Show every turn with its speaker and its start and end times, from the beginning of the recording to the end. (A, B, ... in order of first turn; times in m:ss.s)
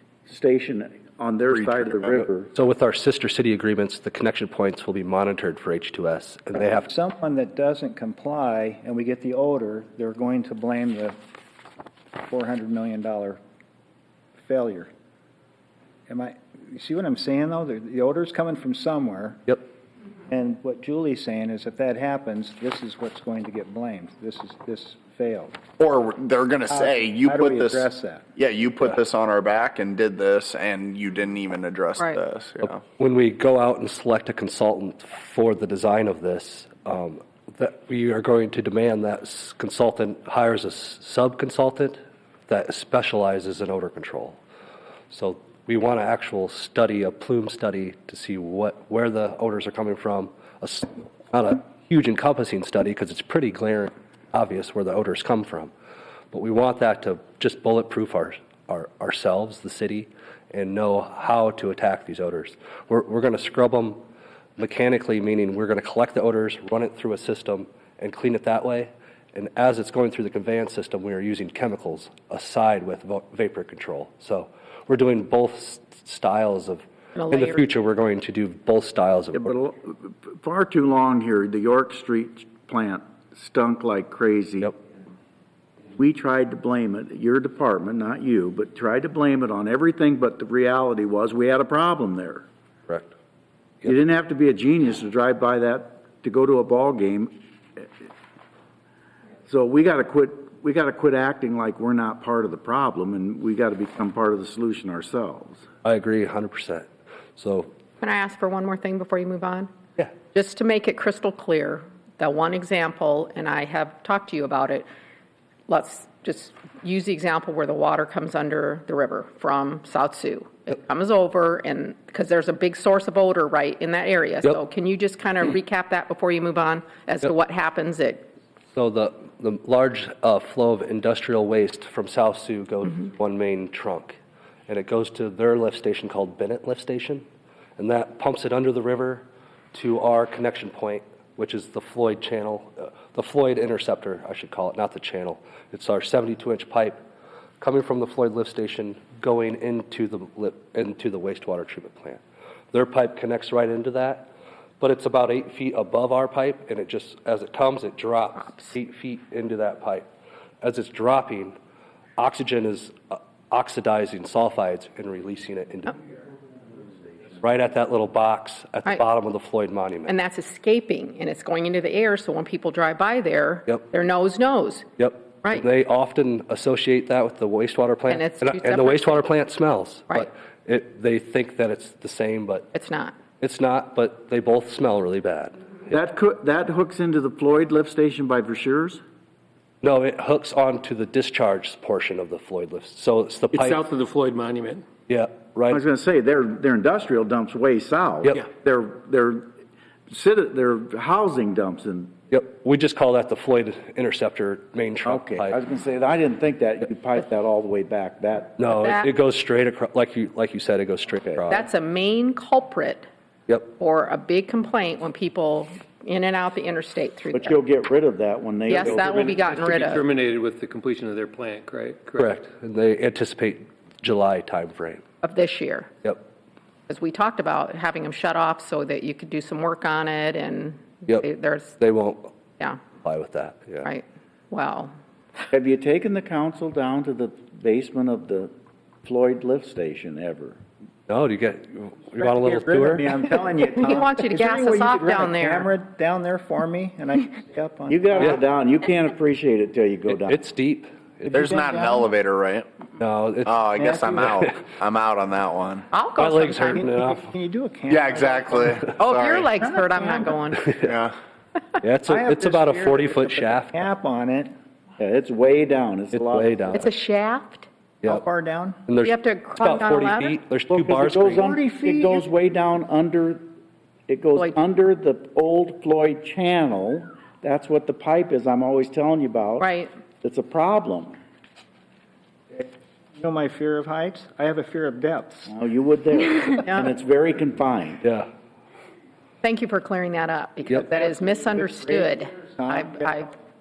0:00.2-0:02.5 A
0:02.5-0:06.9 B
0:06.6-0:11.2 C
0:12.3-0:13.4 C
0:14.4-0:14.9 C
0:16.1-0:19.4 C
0:20.3-0:25.6 C
0:25.8-0:32.8 D
0:26.7-0:28.3 C
0:33.0-0:42.0 B
0:42.5-0:44.4 B
0:45.1-0:55.7 B
0:56.3-1:04.0 B
1:04.6-1:19.5 B
1:17.2-1:17.6 E
1:19.3-1:24.7 A
1:26.0-1:32.4 A
1:33.8-1:37.8 A
1:39.5-1:45.6 A
1:45.8-1:47.7 B
1:48.0-1:54.9 E
1:55.7-2:08.3 E
2:08.7-2:17.2 B
2:17.8-2:27.0 B
2:27.6-2:32.2 B
2:32.7-2:34.3 B
2:34.8-2:40.1 B
2:40.6-2:41.6 B
2:42.2-2:46.0 B
2:47.4-2:50.1 B
2:50.0-2:55.6 E
2:55.0-3:02.7 B
2:58.1-2:59.2 E
3:02.7-3:03.3 E
3:03.3-3:05.5 B
3:05.9-3:09.0 A
3:09.8-3:13.8 B
3:13.5-3:14.8 F
3:15.1-3:15.8 B
3:15.7-3:19.5 A
3:20.1-3:22.2 A
3:22.3-3:25.6 B
3:25.0-3:28.7 A
3:28.6-3:31.6 B
3:28.7-3:29.1 E
3:31.5-3:33.1 E
3:33.5-3:33.7 B
3:33.7-3:37.6 E
3:37.3-3:39.5 A
3:38.7-3:40.0 E
3:39.0-3:42.3 F
3:42.1-3:45.0 B
3:45.2-3:45.9 E
3:46.9-3:51.8 E
3:51.8-3:52.4 B
3:52.6-3:52.8 E
3:53.0-3:53.9 B
3:53.8-3:54.9 E
3:55.5-3:58.5 A
3:59.0-4:00.6 A
4:01.1-4:03.1 B
4:02.2-4:08.4 C
4:03.6-4:05.7 E
4:07.9-4:10.4 A
4:10.1-4:11.5 B
4:11.3-4:12.7 D
4:11.3-4:12.1 C
4:13.0-4:13.7 B
4:13.4-4:15.9 D
4:13.8-4:14.3 C
4:15.9-4:16.8 E
4:16.2-4:17.2 B
4:16.7-4:18.9 C
4:17.9-4:19.5 D
4:18.9-4:20.8 E
4:19.6-4:20.4 C
4:20.8-4:21.1 D
4:21.8-4:23.8 B
4:22.0-4:24.5 C
4:25.0-4:26.8 A
4:26.1-4:26.9 B
4:26.7-4:27.7 E
4:28.0-4:28.8 C
4:28.9-4:31.4 B
4:29.0-4:30.4 E
4:30.7-4:33.5 A
4:31.3-4:32.2 C
4:34.1-4:41.2 A
4:39.6-4:39.9 E
4:42.5-4:45.5 C
4:45.5-4:48.0 A
4:46.6-4:46.9 E
4:49.4-4:53.3 E
4:51.4-4:53.2 C